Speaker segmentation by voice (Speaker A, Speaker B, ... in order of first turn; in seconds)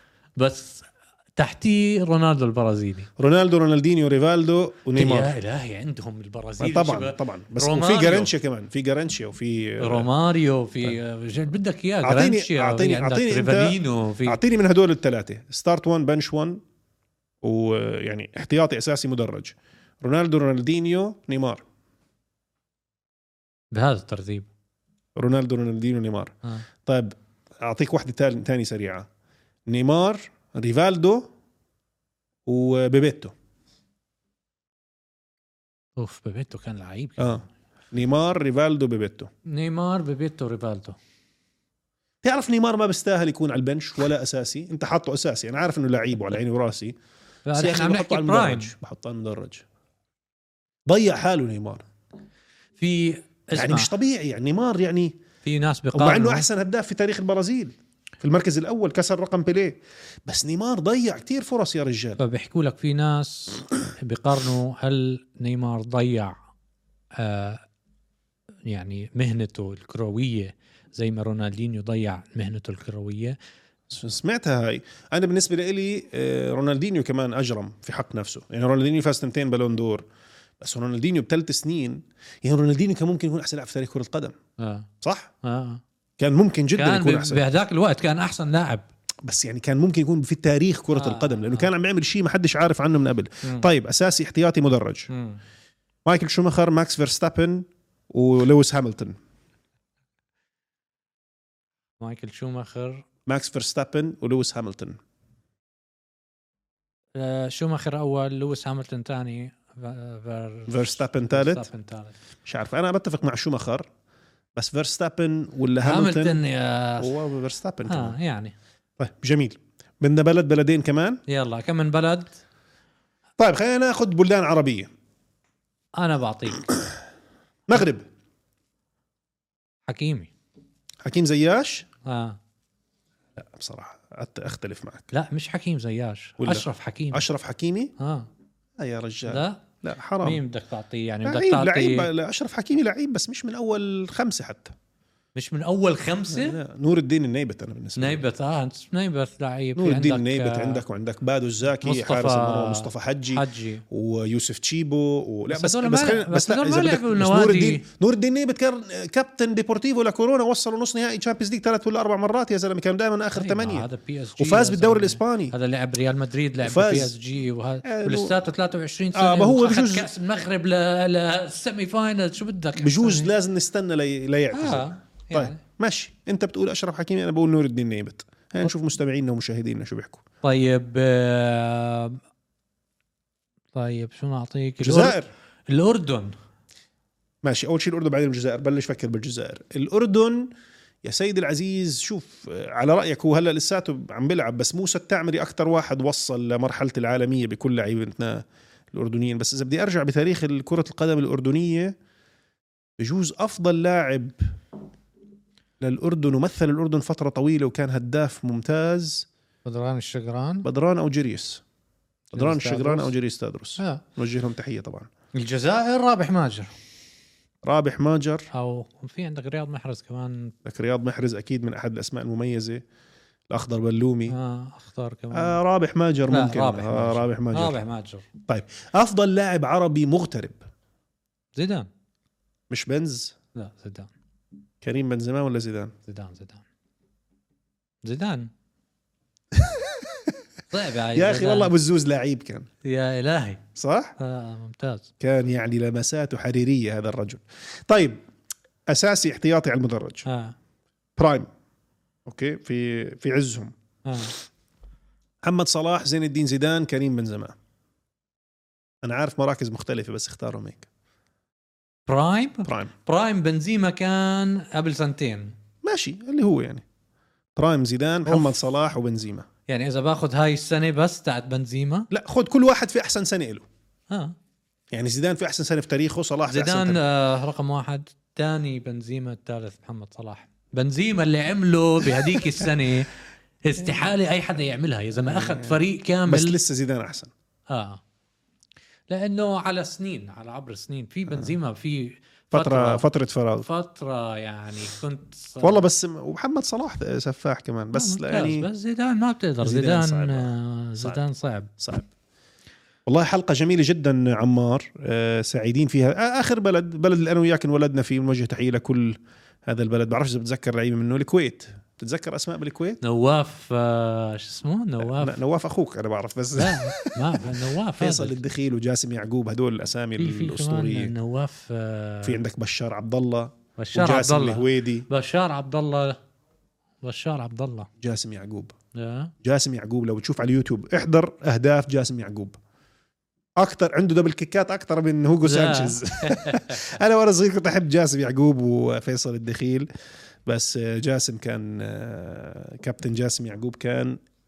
Speaker A: 0.4-3.1, 5.0-8.3, 9.8-14.4, 23.7-24.5, 36.0-37.5, 39.5-41.0, 47.5-48.7, 52.8-53.9, 55.4-56.5, 62.2-66.3, 67.2-67.6, 68.7-73.4, 84.6-84.9, 85.4-85.8, 86.8-88.8, 90.9-91.7, 95.1-95.4, 102.0-103.0, 107.2-112.1, 115.8-117.1, 117.9-118.5, 121.3-122.3, 126.0-126.7, 129.9-130.3, 132.0-132.4, 135.1-137.2, 138.0-138.3, 139.3-139.6, 140.2-142.1, 145.3-146.6, 148.0-150.8, 151.8-153.8, 155.5-157.8, 163.3-173.3, 174.5-175.6, 180.4-182.2, 183.7-185.2, 185.7-186.3, 209.6-210.7, 212.3-213.1, 213.8-214.0, 215.4-216.7, 218.5-220.5, 224.3-225.6, 226.3-228.3, 231.6-231.9, 233.6-234.1, 236.1-236.6, 238.0-238.5, 240.7-241.7, 242.8-243.6, 244.2-245.1, 250.2-250.6, 254.1-254.3, 262.1-265.5, 268.2-268.5, 269.7-272.1, 276.5-283.1, 283.6-286.6, 287.7-288.0, 289.1-293.1, 293.6-295.8, 297.9-301.7, 313.0-315.4, 316.6-318.4, 320.2-322.4, 323.8-326.2, 327.0-327.9, 328.9-329.3, 335.4-336.8
Speaker B: 3.2-5.4, 6.6-10.1, 12.0-16.6, 17.4-21.6, 25.1-26.4, 26.9-29.1, 29.7-31.3, 32.5-33.3, 37.2-39.3, 42.2-46.9, 47.5-49.6, 50.9-51.8, 53.5-55.1, 55.9-62.2, 73.9-80.0, 80.6-84.3, 85.0-85.3, 86.2-87.4, 89.2-95.1, 96.0-99.1, 103.2-105.0, 110.7-111.7, 112.5-113.9, 114.5-116.4, 117.0-118.1, 119.0-121.2, 123.4-124.9, 127.7-128.0, 131.0-131.9, 133.4-135.1, 136.4-137.9, 138.8-140.4, 141.2-144.7, 146.3-148.2, 149.8-165.6, 166.6-167.1, 167.8-168.4, 169.1-170.1, 172.8-180.2, 184.8-185.3, 187.4-190.5, 191.0-201.9, 203.0-204.6, 205.8-209.2, 210.6-211.6, 212.3-215.1, 217.6-218.5, 220.6-222.8, 223.5-224.4, 225.3-227.8, 228.4-230.6, 232.7-233.3, 234.8-235.9, 239.5-240.3, 241.1-242.7, 243.8-244.1, 245.2-248.2, 248.9-250.2, 251.2-251.5, 252.2-253.7, 255.4-257.5, 259.0-260.9, 262.6-262.9, 265.8-266.8, 267.6-269.4, 272.1-273.6, 274.9-277.0, 282.1-282.7, 285.2-287.3, 292.5-293.6, 295.6-298.7, 299.6-301.2, 301.8-302.1, 303.1-313.0, 315.0-317.4, 318.0-321.1, 322.2-325.1, 328.0-328.7, 329.4-332.6, 333.6-339.9, 340.4-344.2